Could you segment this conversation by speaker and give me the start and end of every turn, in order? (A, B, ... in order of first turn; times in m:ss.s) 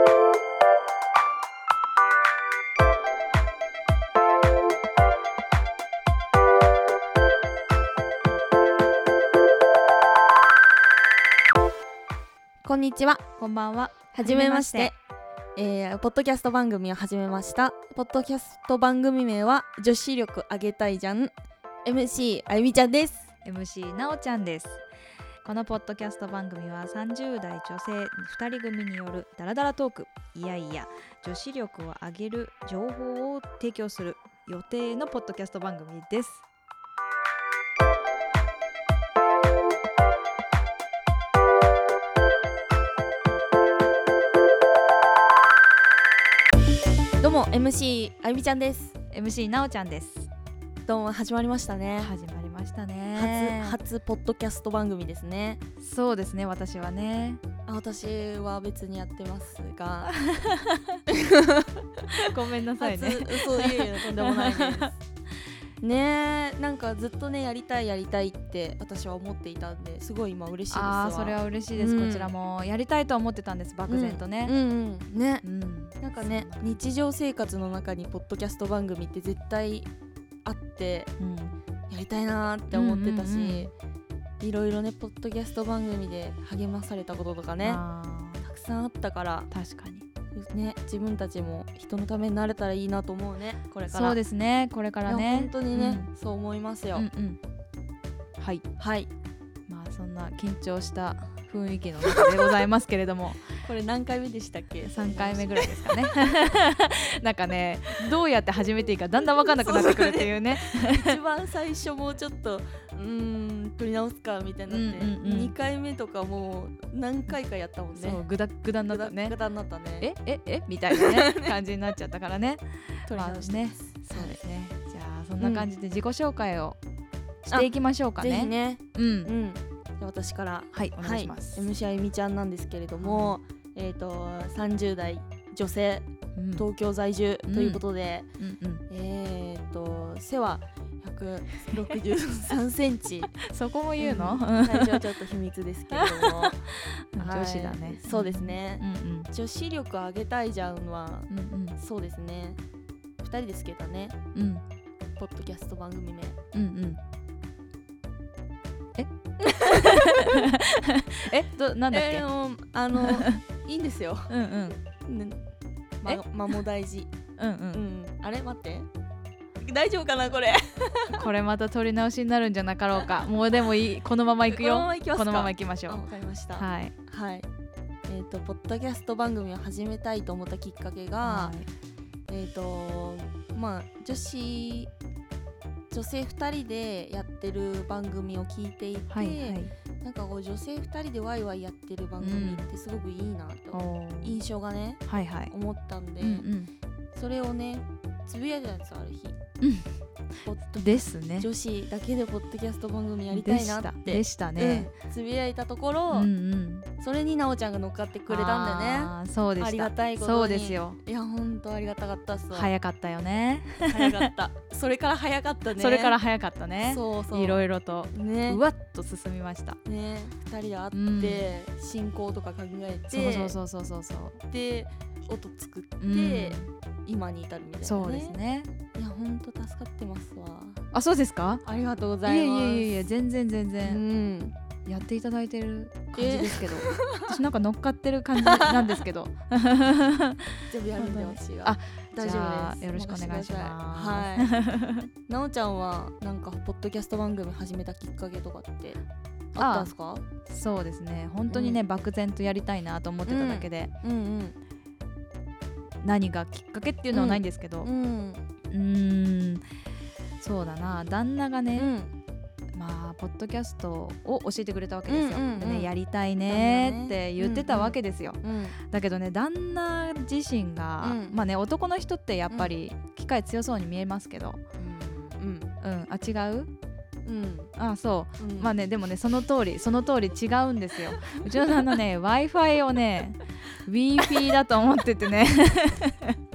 0:12.6-0:13.2 A
0:13.4-0:14.9 B
0:14.1-0:15.0 A
0:15.6-0:21.3 A
0:21.8-0:23.3 A
0:23.4-0:24.8 B
0:25.4-0:36.4 B
0:47.2-0:48.9 A
0:49.1-0:50.3 B
0:50.8-0:52.1 A
0:52.0-0:53.8 B
0:53.1-0:55.6 A
0:55.8-0:57.4 B
0:57.6-1:00.2 A
1:00.3-1:01.0 B
1:01.1-1:01.8 A
1:02.3-1:04.9 B
1:02.8-1:05.0 A
1:05.8-1:12.3 A
1:10.7-1:14.5 B
1:13.9-1:15.4 A
1:15.4-1:16.8 B
1:16.0-1:19.9 A
1:20.4-1:21.1 A
1:21.2-1:21.6 B
1:21.9-1:23.7 A
1:22.7-1:23.7 B
1:24.4-1:27.8 A
1:27.6-1:28.4 B
1:28.4-1:29.5 A
1:29.5-1:30.0 B
1:30.3-1:34.2 A
1:33.9-1:36.1 B
1:35.0-1:37.1 A
1:36.9-1:37.4 B
1:38.4-1:38.6 B
1:38.8-1:39.1 A
1:39.7-1:43.5 B
1:43.6-1:45.8 A
1:44.9-1:51.1 B
1:49.4-1:58.2 A
1:54.7-1:55.5 B
1:58.0-1:59.3 B
1:58.8-2:00.1 A
2:00.0-2:06.8 B
2:00.9-2:01.5 A
2:03.1-2:04.4 A
2:05.4-2:05.7 A
2:07.4-2:09.3 B
2:07.5-2:18.3 A
2:10.7-2:11.6 B
2:13.0-2:13.4 B
2:16.4-2:16.6 B
2:17.5-2:17.8 B
2:18.4-2:18.8 B
2:18.9-2:23.4 A
2:23.4-2:25.0 B
2:24.0-2:26.6 A
2:26.0-2:29.3 B
2:27.2-2:32.6 A
2:31.3-2:31.8 B
2:33.2-2:34.2 A
2:34.3-2:34.6 B
2:35.2-2:36.4 A
2:36.5-2:37.0 B
2:39.0-2:42.2 B
2:39.4-2:40.2 A
2:41.9-2:44.3 A
2:43.0-2:43.4 B
2:44.3-2:44.8 B
2:45.0-2:45.4 A
2:46.0-2:47.1 A
2:47.4-2:47.8 B
2:47.7-2:48.9 A
2:49.6-2:51.3 A
2:51.2-2:56.0 B
2:54.5-2:57.5 A
2:56.6-2:56.9 B
2:58.1-3:01.6 A
3:01.2-3:01.7 B
3:02.3-3:04.9 A
3:05.9-3:16.5 A
3:09.1-3:09.7 B
3:12.2-3:12.6 B
3:13.7-3:14.4 B
3:15.1-3:15.5 B
3:16.2-3:16.7 B
3:17.1-3:19.4 A
3:19.6-3:19.9 B
3:20.4-3:26.3 A
3:20.8-3:21.5 B
3:23.3-3:24.9 B
3:26.1-3:26.9 B
3:27.0-3:32.7 A
3:28.3-3:31.0 B
3:32.5-3:34.3 B
3:33.8-3:36.2 A
3:35.8-3:39.8 B
3:36.8-3:38.6 A
3:39.8-3:43.6 A
3:40.9-3:41.5 B
3:43.1-3:44.4 B
3:44.5-3:48.4 A
3:46.0-3:46.7 B
3:47.8-3:48.7 B
3:48.9-3:50.8 A
3:50.9-3:51.6 B
3:51.6-3:53.1 A
3:52.2-3:54.0 B
3:53.8-3:54.5 A
3:54.8-4:05.1 B
3:56.1-3:57.4 A
3:58.4-3:59.0 A
4:00.7-4:04.5 A
4:05.3-4:09.0 A
4:09.5-4:10.2 A
4:09.6-4:09.9 B
4:10.5-4:13.9 B
4:11.5-4:11.8 A
4:13.2-4:14.6 A
4:16.0-4:17.9 B
4:17.1-4:18.4 A
4:18.7-4:19.6 B
4:20.4-4:21.9 B
4:21.7-4:22.1 A
4:22.7-4:34.6 B
4:25.1-4:25.9 A
4:26.4-4:28.8 A
4:31.0-4:31.4 A
4:34.8-4:35.7 A
4:35.8-4:36.7 B
4:37.2-4:37.7 A
4:37.8-4:46.4 B
4:38.4-4:38.7 A
4:41.2-4:41.8 A